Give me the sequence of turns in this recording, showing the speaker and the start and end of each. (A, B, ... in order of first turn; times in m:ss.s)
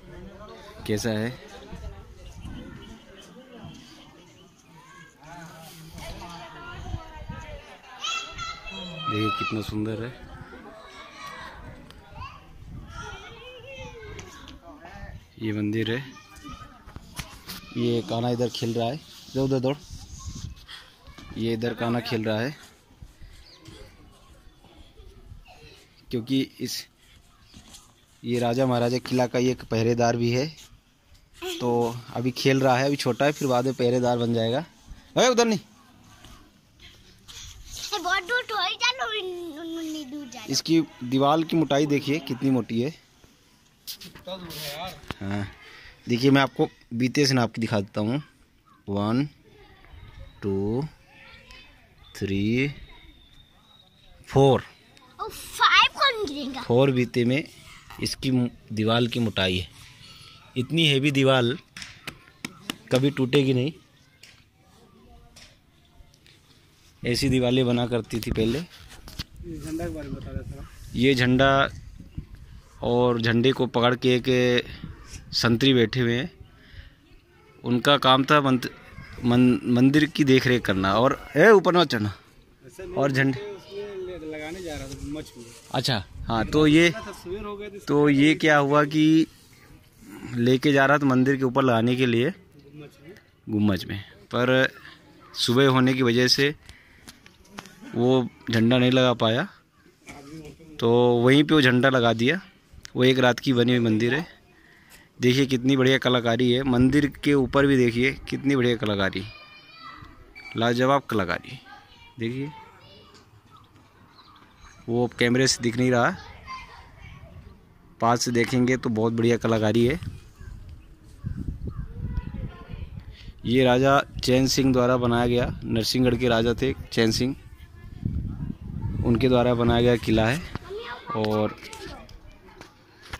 0:00.8-0:01.4 A
0:09.1-0:10.2 A
0:15.4-0:16.1 A
0:17.7-0:19.8 A
0:21.3-0:22.6 A
0:26.1-0:26.9 A
0:28.2-0:30.5 A
0:31.6-0:35.6 A
0:37.7-0:40.7 B
0:40.5-0:43.0 A
0:44.5-0:44.9 C
0:45.1-0:45.5 A
0:46.1-0:48.2 A
0:48.9-0:49.3 A
0:50.4-0:50.9 A
0:52.1-0:52.8 A
0:54.3-0:54.7 A
0:55.2-0:56.7 B
0:56.6-0:57.5 A
0:58.0-0:59.7 A
1:00.6-1:01.6 A
1:02.9-1:03.8 A
1:07.0-1:08.7 A
1:09.4-1:10.7 C
1:10.9-1:11.7 A
1:12.8-1:14.7 A
1:15.3-1:16.3 A
1:17.6-1:22.2 A
1:22.6-1:25.6 C
1:23.0-1:23.4 A
1:25.7-1:27.0 A
1:26.4-1:28.9 C
1:27.9-1:29.3 A
1:30.1-1:32.4 A
1:32.6-1:33.2 C
1:33.5-1:34.8 A
1:35.4-1:36.6 A
1:37.9-1:39.5 A
1:40.1-1:40.8 C
1:40.8-1:42.4 A
1:43.0-1:44.3 A
1:45.2-1:49.3 A
1:50.6-1:51.6 A
1:52.2-1:52.6 A
1:54.9-1:56.2 A
1:58.0-2:00.0 A
2:03.4-2:07.4 A
2:09.0-2:10.5 A
2:10.6-2:12.0 B
2:11.1-2:11.6 A